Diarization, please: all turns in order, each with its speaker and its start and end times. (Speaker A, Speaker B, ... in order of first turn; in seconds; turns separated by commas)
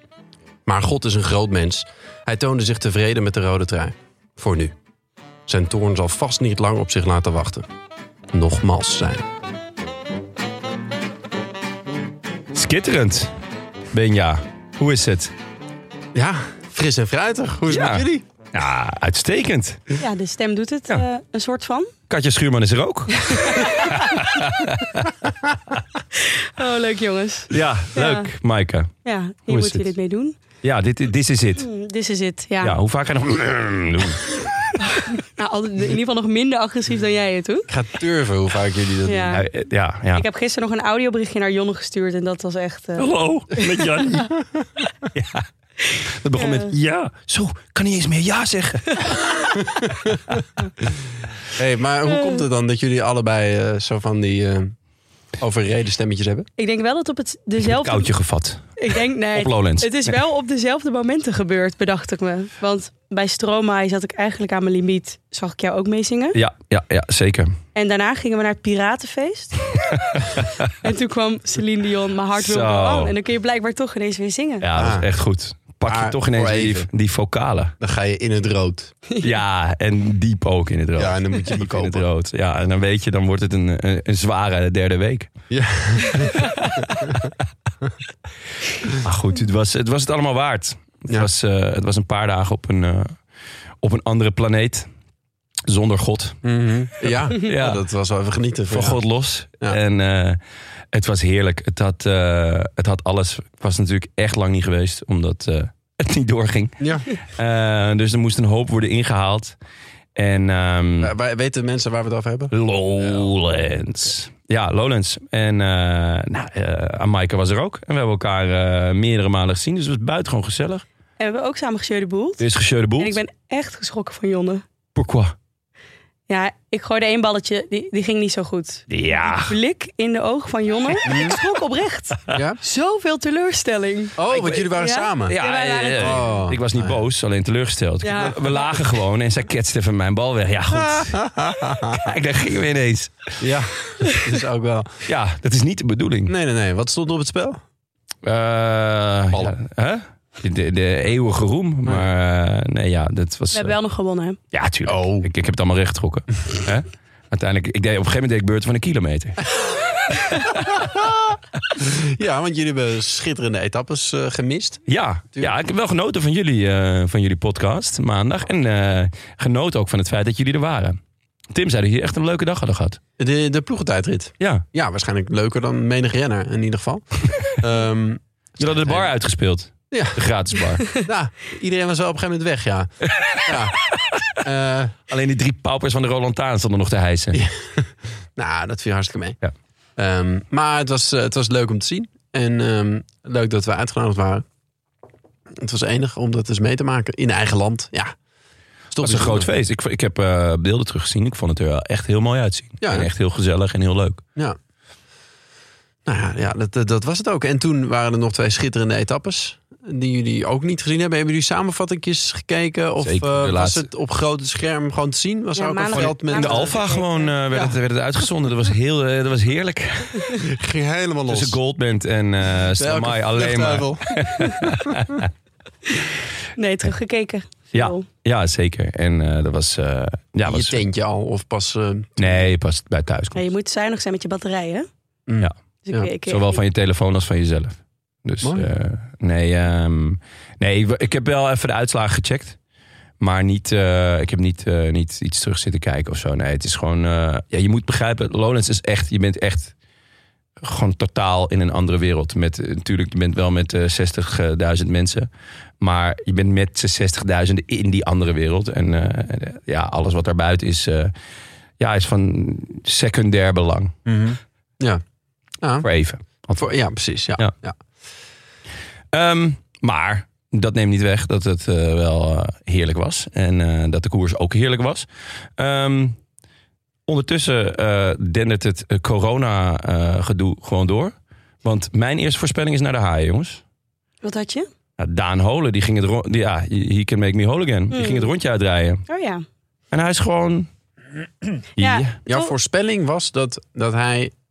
Speaker A: 0.7-4.7, Speaker A: 5.5-7.7, Speaker A: 8.3-9.3, Speaker B: 12.5-13.3, Speaker B: 13.9-15.3, Speaker A: 16.1-18.2, Speaker B: 17.7-19.9, Speaker C: 20.0-21.9, Speaker B: 22.1-25.1, Speaker C: 23.2-24.0, Speaker C: 26.2-28.3, Speaker B: 27.5-28.9, Speaker C: 29.1-30.4, Speaker B: 29.5-29.9, Speaker B: 30.6-31.7, Speaker C: 31.6-32.8, Speaker B: 32.6-34.8, Speaker C: 34.9-37.7, Speaker A: 37.7-39.4, Speaker C: 39.1-39.4, Speaker B: 39.3-40.2, Speaker C: 40.1-43.1, Speaker B: 43.0-44.4, Speaker B: 45.1-45.4, Speaker B: 46.2-49.2, Speaker C: 46.4-46.7, Speaker A: 51.5-54.8, Speaker C: 52.1-52.4, Speaker A: 55.4-56.5, Speaker C: 56.6-58.1, Speaker B: 57.6-58.8, Speaker C: 58.8-66.4, Speaker B: 59.3-59.9, Speaker B: 66.3-67.6, Speaker C: 67.8-69.8, Speaker B: 70.1-70.7, Speaker C: 70.8-74.6, Speaker B: 72.4-73.2, Speaker B: 74.6-77.7, Speaker A: 74.8-75.1, Speaker A: 75.9-76.9, Speaker A: 77.8-78.9, Speaker B: 79.2-85.3, Speaker A: 81.0-82.1, Speaker A: 85.5-87.3, Speaker B: 89.0-93.2, Speaker B: 93.8-94.9, Speaker B: 95.7-96.4, Speaker A: 96.4-99.0, Speaker B: 97.3-97.8, Speaker B: 98.7-100.4, Speaker B: 100.9-109.6, Speaker A: 106.8-107.1, Speaker B: 110.2-111.1, Speaker A: 111.0-113.3, Speaker B: 112.5-120.8, Speaker C: 121.2-122.4, Speaker B: 122.4-123.2, Speaker C: 123.0-124.6, Speaker B: 124.9-125.3, Speaker C: 126.3-134.2, Speaker B: 128.9-129.6, Speaker A: 131.1-131.3, Speaker A: 132.3-132.6, Speaker A: 134.2-135.4, Speaker B: 134.3-134.7, Speaker C: 134.8-136.3, Speaker B: 135.2-141.3, Speaker A: 135.9-137.0, Speaker C: 138.0-138.7, Speaker A: 140.7-142.1, Speaker B: 141.9-143.4, Speaker A: 143.4-145.0, Speaker B: 145.1-146.3, Speaker A: 146.2-147.6, Speaker B: 148.2-153.8, Speaker C: 153.5-154.4, Speaker B: 154.5-159.4, Speaker A: 154.9-155.3, Speaker B: 160.1-160.9, Speaker A: 160.8-164.8, Speaker B: 164.9-171.0, Speaker B: 171.5-173.0, Speaker A: 173.2-179.1, Speaker B: 174.4-174.6, Speaker B: 178.6-180.9, Speaker A: 179.9-180.2, Speaker A: 181.0-182.9, Speaker B: 183.2-183.5, Speaker A: 183.4-183.8, Speaker A: 184.4-184.9, Speaker B: 185.1-187.4, Speaker A: 187.3-189.4, Speaker A: 190.0-194.4, Speaker A: 195.6-198.1, Speaker A: 198.9-199.5, Speaker B: 199.0-204.2, Speaker A: 202.8-203.1, Speaker A: 206.1-216.8, Speaker B: 213.0-213.9, Speaker C: 215.6-217.3, Speaker B: 215.9-220.4, Speaker A: 220.3-221.6, Speaker B: 221.3-225.3, Speaker A: 222.8-224.2, Speaker C: 226.6-228.0, Speaker B: 227.7-230.8, Speaker A: 230.4-232.4, Speaker B: 232.2-233.5, Speaker C: 233.3-234.9, Speaker A: 235.3-236.1, Speaker C: 235.9-236.6, Speaker B: 236.2-242.6, Speaker A: 238.4-238.7, Speaker B: 243.2-249.7, Speaker B: 250.6-255.3, Speaker B: 255.8-261.1, Speaker B: 261.8-263.9, Speaker A: 264.1-265.0, Speaker A: 265.6-265.9, Speaker B: 265.8-266.6, Speaker A: 266.6-267.8, Speaker B: 269.1-276.2, Speaker B: 277.1-281.1, Speaker B: 281.6-283.6, Speaker C: 284.2-284.7, Speaker B: 285.0-289.0, Speaker C: 287.9-288.3, Speaker C: 289.1-289.4, Speaker B: 289.9-290.7, Speaker B: 291.8-292.2, Speaker C: 291.8-292.5, Speaker A: 292.2-294.3